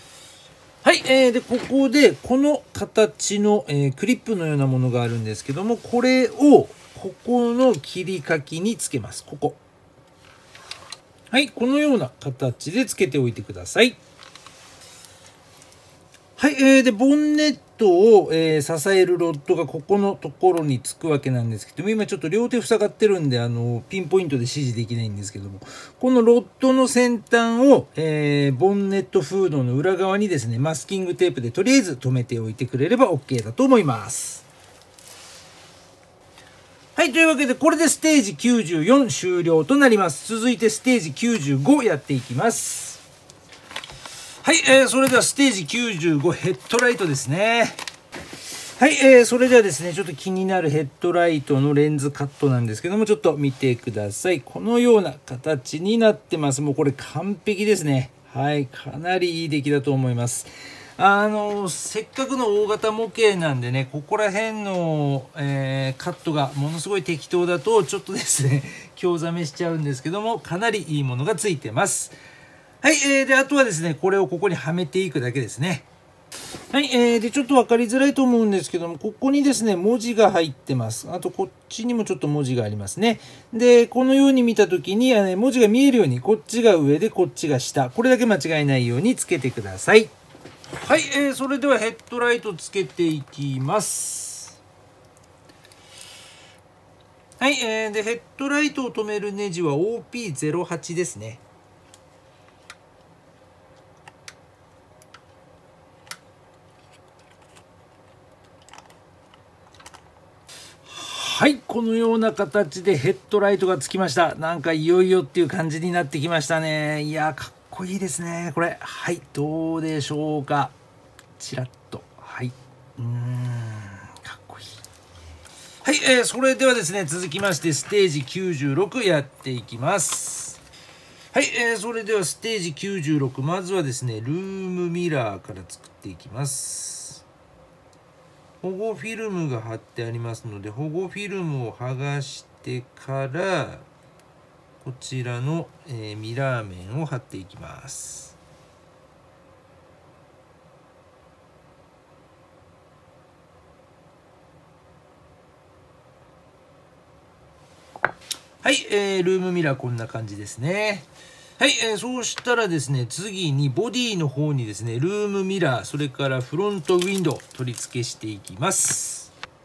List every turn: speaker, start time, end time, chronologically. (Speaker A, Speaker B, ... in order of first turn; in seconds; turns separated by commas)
Speaker A: 0.8-9.6, Speaker A: 11.3-14.0, Speaker A: 16.4-34.4, Speaker A: 37.0-43.0, Speaker A: 44.4-47.8, Speaker A: 48.8-72.1, Speaker A: 72.8-75.8, Speaker A: 76.7-90.1, Speaker A: 90.8-94.6, Speaker A: 97.4-101.4, Speaker A: 110.8-120.7, Speaker A: 121.4-124.8, Speaker A: 125.8-130.6, Speaker A: 131.3-137.2, Speaker A: 138.6-143.8, Speaker A: 144.8-148.3, Speaker A: 158.6-161.1, Speaker A: 161.6-169.3